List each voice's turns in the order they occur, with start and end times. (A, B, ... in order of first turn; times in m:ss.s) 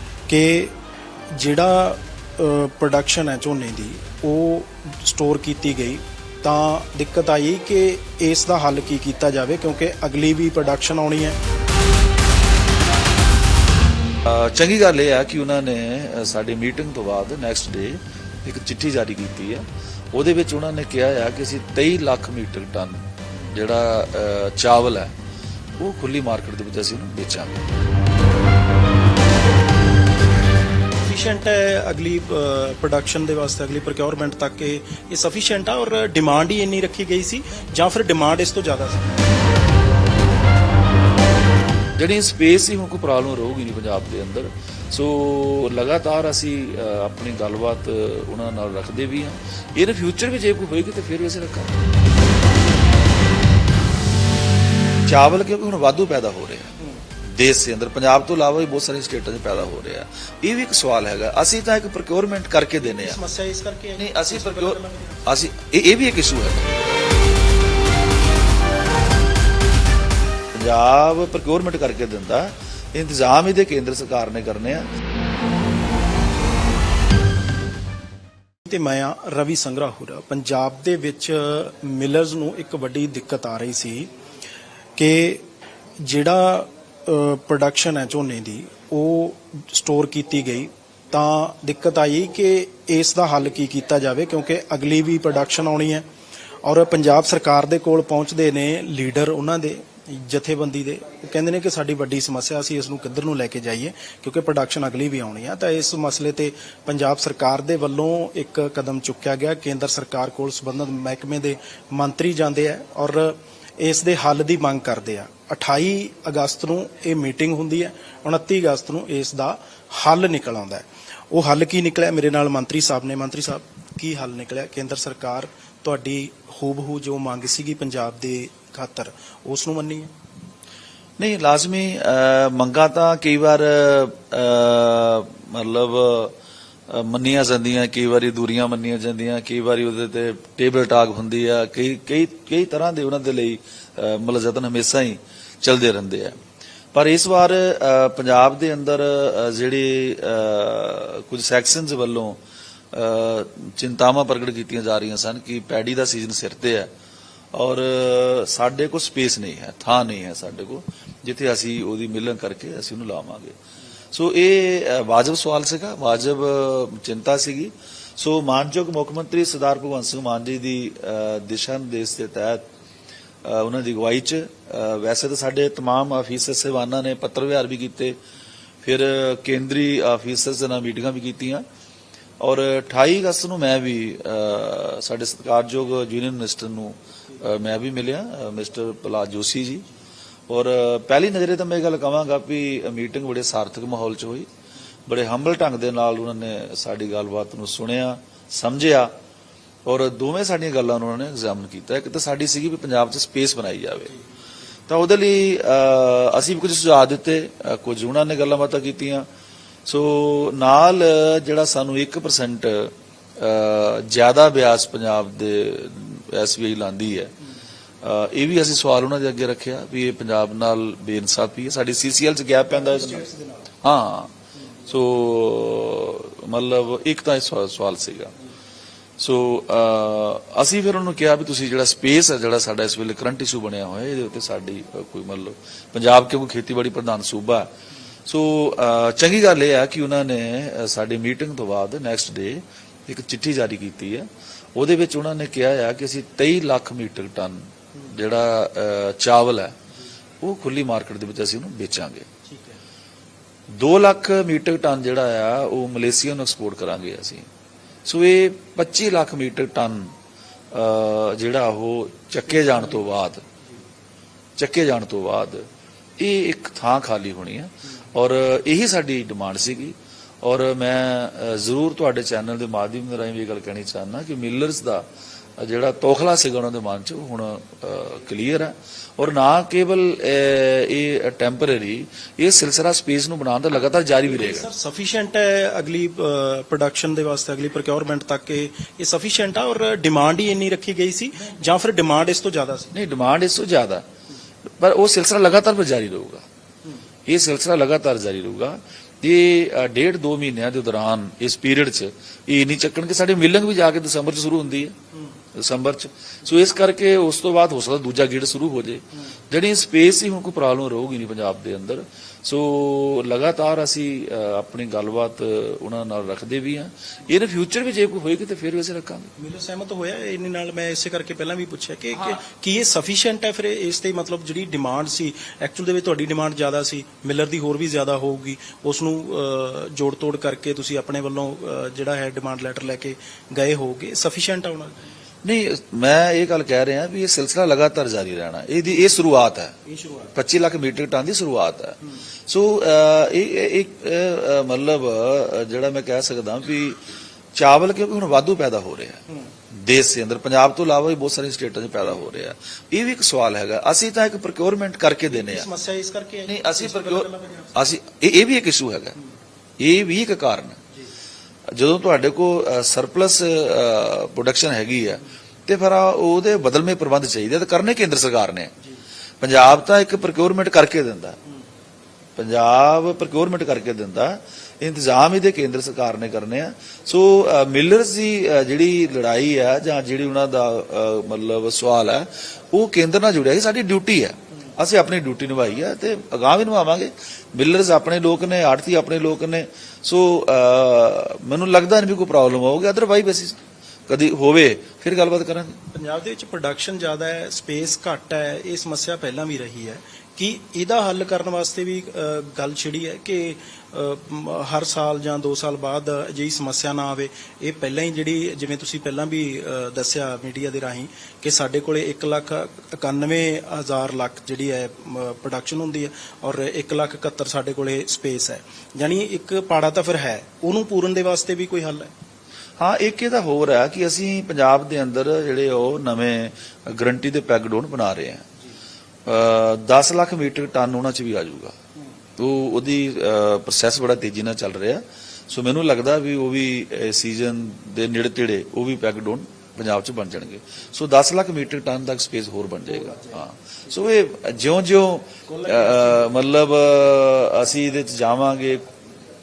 0:00.3-0:00.8 A
0:01.3-0:11.4 A
0:14.2-0:25.1 B
0:25.8-0:27.6 B
0:31.0-0:39.3 A
0:42.0-0:51.8 B
0:55.1-0:56.7 B
0:57.3-1:03.2 B
1:02.8-1:05.3 A
1:04.0-1:06.7 B
1:10.5-1:14.9 B
1:18.6-1:24.1 A
1:25.0-1:25.4 A
1:26.0-1:36.0 A
1:36.6-2:10.1 A
2:11.2-2:16.3 B
2:16.9-2:26.4 B
2:26.9-2:32.4 B
2:32.9-2:36.9 B
2:37.5-2:43.5 B
2:44.1-2:52.6 B
2:53.4-2:58.2 B
2:58.8-3:01.6 B
3:02.4-3:09.8 B
3:10.5-3:14.5 B
3:15.1-3:19.1 B
3:19.8-3:24.1 B
3:24.9-3:29.2 B
3:29.9-3:37.3 B
3:38.0-3:43.2 B
3:42.7-3:43.7 A
3:43.8-3:44.3 B
3:44.9-3:48.3 B
3:49.2-3:57.7 B
3:58.3-4:09.7 B
4:10.4-4:12.3 B
4:12.4-4:12.8 A
4:13.8-4:17.4 B
4:18.1-4:20.1 B
4:20.7-4:23.4 B
4:22.6-4:23.0 A
4:24.6-4:25.7 B
4:26.2-4:35.0 B
4:35.6-4:44.7 B
4:44.2-4:52.9 A
4:52.9-4:54.0 B
4:54.8-4:56.4 B
4:57.3-5:04.9 B
5:05.6-5:19.3 B
5:19.4-5:35.1 A
5:22.1-5:22.4 B
5:35.4-5:39.7 B
5:39.9-5:40.3 A
5:40.3-5:47.0 B
5:47.6-5:49.2 B
5:49.7-5:55.7 B
5:55.3-5:57.8 A
5:56.5-5:59.2 B
5:59.8-6:00.8 B
6:01.7-6:08.7 B
6:09.4-6:11.4 B
6:12.4-6:33.6 B
6:34.1-6:35.8 B
6:35.9-7:02.1 A
7:02.8-7:08.4 B
7:09.2-7:11.7 B
7:12.4-7:28.8 B
7:22.9-7:23.4 A
7:25.5-7:26.4 A